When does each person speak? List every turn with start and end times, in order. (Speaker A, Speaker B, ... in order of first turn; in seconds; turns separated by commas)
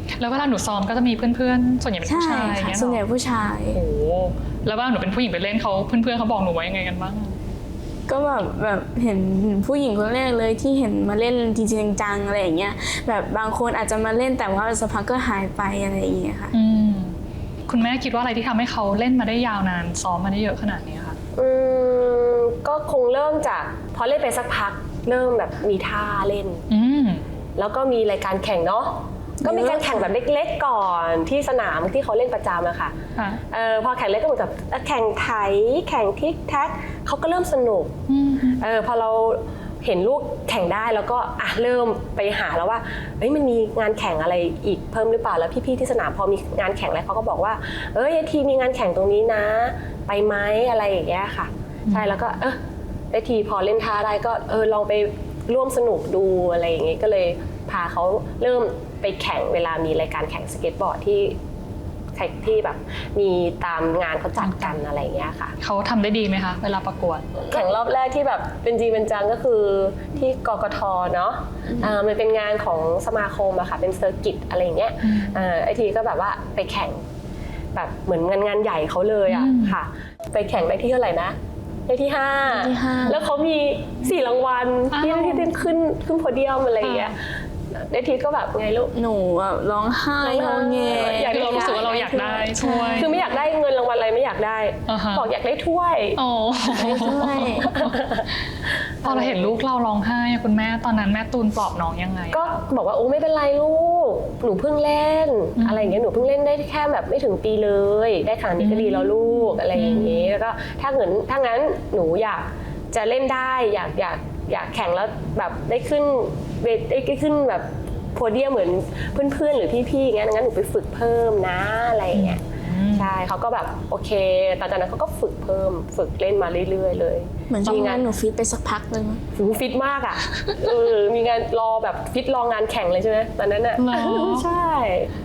Speaker A: 0.2-3.0, Speaker B: 2.0-3.8, Speaker A: 3.7-7.3, Speaker B: 8.1-16.5, Speaker A: 16.5-17.1, Speaker A: 17.7-21.2, Speaker C: 21.3-26.6, Speaker A: 26.7-27.2, Speaker C: 27.6-32.9, Speaker B: 29.4-30.1, Speaker A: 33.1-33.4, Speaker C: 33.5-38.0, Speaker A: 38.1-38.6, Speaker C: 38.6-52.6, Speaker A: 51.9-52.1, Speaker C: 53.1-61.4, Speaker C: 62.1-65.5, Speaker A: 64.4-64.8, Speaker A: 65.6-67.4, Speaker C: 67.4-77.0, Speaker A: 75.0-75.4, Speaker C: 77.7-81.3, Speaker A: 79.3-79.8, Speaker C: 81.9-87.2, Speaker B: 82.5-83.3, Speaker A: 84.9-85.7, Speaker A: 86.8-87.1, Speaker C: 87.7-88.9, Speaker B: 88.9-93.2, Speaker C: 90.2-92.3, Speaker A: 91.0-93.1, Speaker C: 93.0-96.2, Speaker A: 94.9-95.2, Speaker A: 96.2-98.0, Speaker B: 96.7-97.8, Speaker C: 97.7-98.3, Speaker C: 99.0-99.5, Speaker A: 99.0-102.5, Speaker C: 102.3-122.4, Speaker A: 105.6-106.0, Speaker A: 108.6-110.3, Speaker A: 122.1-123.1, Speaker C: 122.9-128.1, Speaker B: 127.5-129.2, Speaker C: 129.3-135.1, Speaker A: 133.8-134.5